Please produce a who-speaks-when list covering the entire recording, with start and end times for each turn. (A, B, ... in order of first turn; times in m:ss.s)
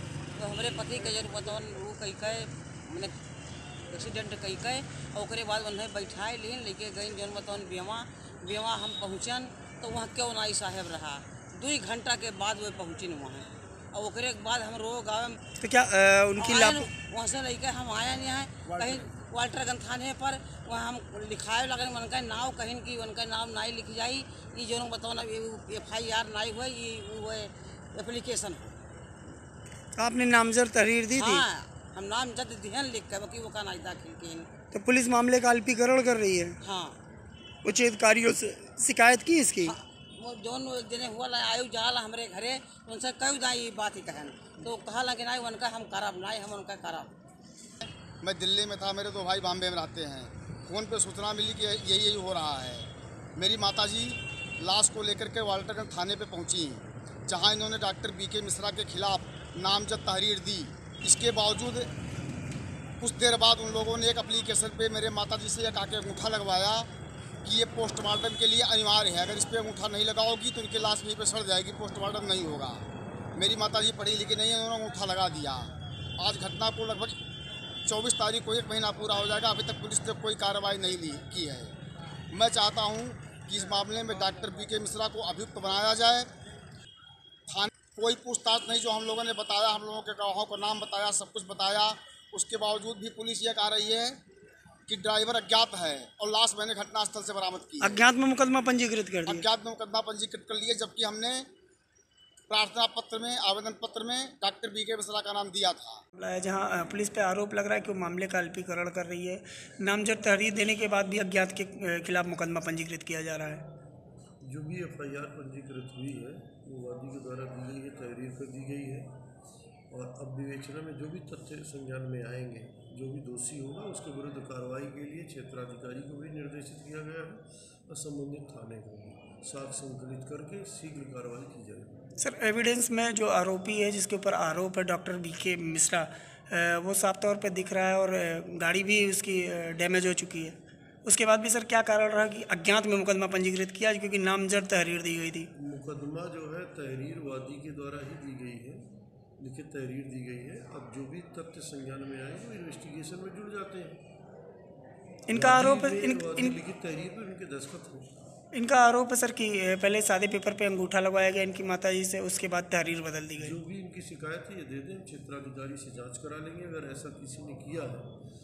0:00.4-0:03.1 A
0:03.9-0:15.4 A
0:15.6-0:16.9 B
0:16.4-0:28.8 A
0:30.0-0:31.5 B
0:31.2-0:34.5 A
0:34.7-0:36.6 B
0:36.6-0:37.0 A
0:37.6-0:39.8 B
0:39.6-0:47.1 A
0:47.8-1:01.9 C
1:03.0-1:06.9 C
1:07.4-1:12.8 C
1:13.4-1:17.2 C
1:17.9-1:21.7 C
1:22.3-1:26.3 C
1:27.5-1:34.2 C
1:34.9-1:38.0 C
1:37.8-1:39.5 B
1:39.3-1:41.5 C
1:42.5-1:46.0 C
1:46.2-1:53.6 B
1:54.4-1:59.1 D
1:59.9-2:12.0 D
2:12.2-2:25.5 B
2:25.6-2:28.9 D
2:29.4-2:34.0 D
2:35.3-2:36.6 B
2:35.3-2:38.1 D
2:38.5-2:43.6 B
2:43.4-2:48.1 D